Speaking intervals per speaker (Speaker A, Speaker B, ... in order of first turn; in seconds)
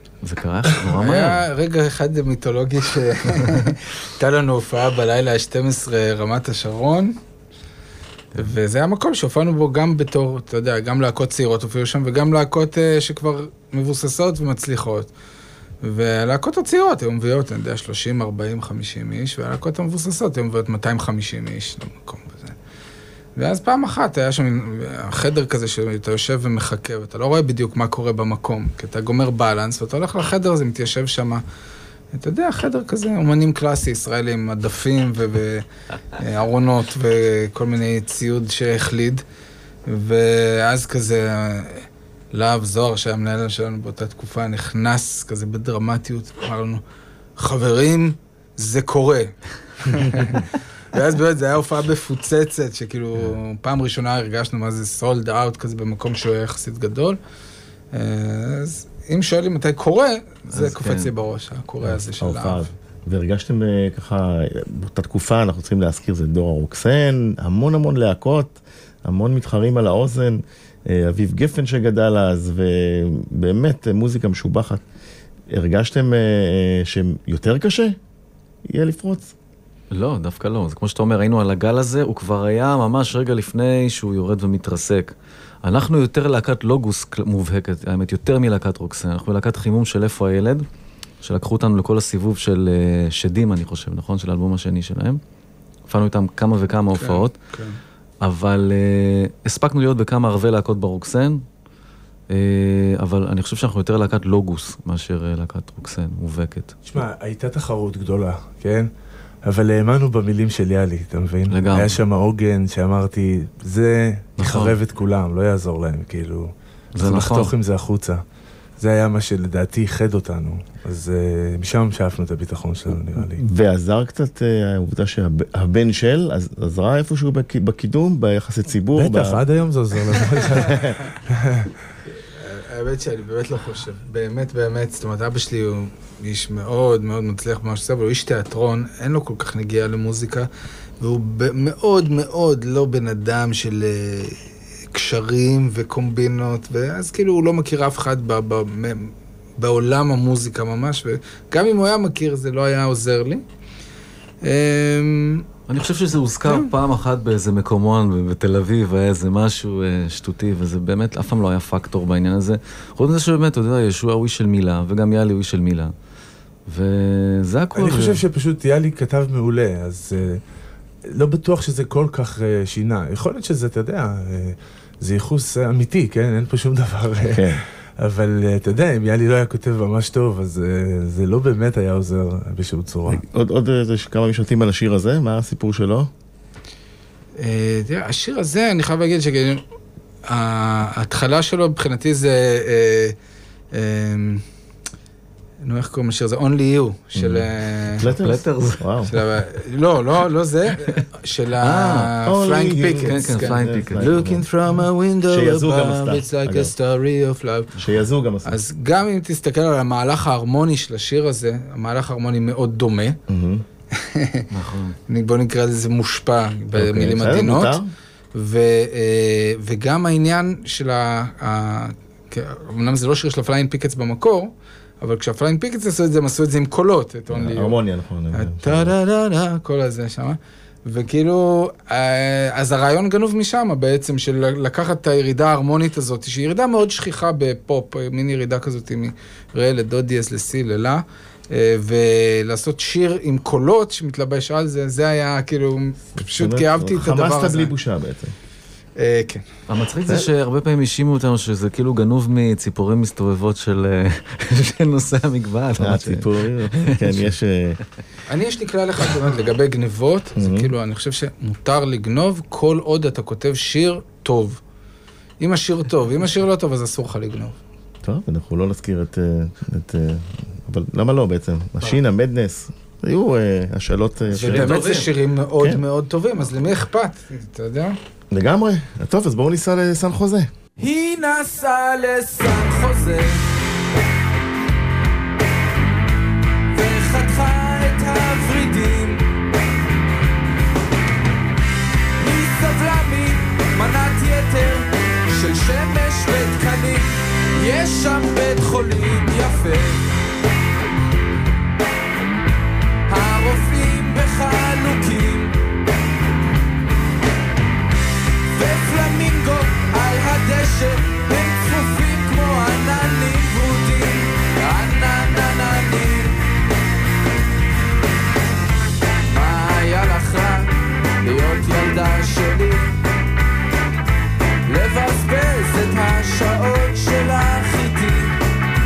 Speaker A: 0.2-1.5, 60.5-61.1, 79.9-85.1, 85.6-90.7, 91.2-95.2, 95.9-97.3, 98.2-101.4, 102.3-106.8, 111.5-112.0, 114.4-114.7, 117.0-117.5, 155.7-165.9, 166.7-168.2, 198.2-199.2, 201.6-202.1, 203.0-204.3, 214.5-214.9, 249.7-257.3, 274.3-275.1
Speaker B: 0.9-7.1, 8.3-15.1, 15.8-22.5, 23.4-31.4, 32.1-35.6, 36.2-39.2, 39.9-46.8, 47.4-57.2, 57.9-62.7, 96.9-97.8, 132.3-140.5, 141.0-144.4, 144.9-153.4, 154.4-155.4, 187.4-189.6, 190.2-193.2, 193.7-194.4, 195.6-198.1, 199.1-207.7, 208.4-213.2, 213.9-214.4, 215.1-217.8, 218.3-227.8, 228.3-247.7, 249.0-249.4, 258.3-264.6, 265.4-267.6, 274.3-278.0
Speaker C: 62.1-74.8, 75.5-78.0, 78.7-79.3, 123.2-129.4, 130.5-130.9, 177.2-177.6, 183.1-186.1, 197.2-199.1, 202.2-204.4, 205.3-206.7, 207.8-208.5, 213.3-213.6, 216.7-217.9, 227.3-228.9, 246.2-248.3, 255.8-257.8, 260.4-260.7, 268.0-274.7, 278.3-280.5
Speaker D: 106.8-108.9, 109.4-118.2, 118.8-123.4, 128.9-131.7, 167.8-170.4, 171.1-183.2
Speaker E: 204.1-206.0, 280.8-283.4, 286.7-289.2, 292.2-300.1, 303.1-305.5, 308.5-316.4, 319.3-322.9, 324.7-328.3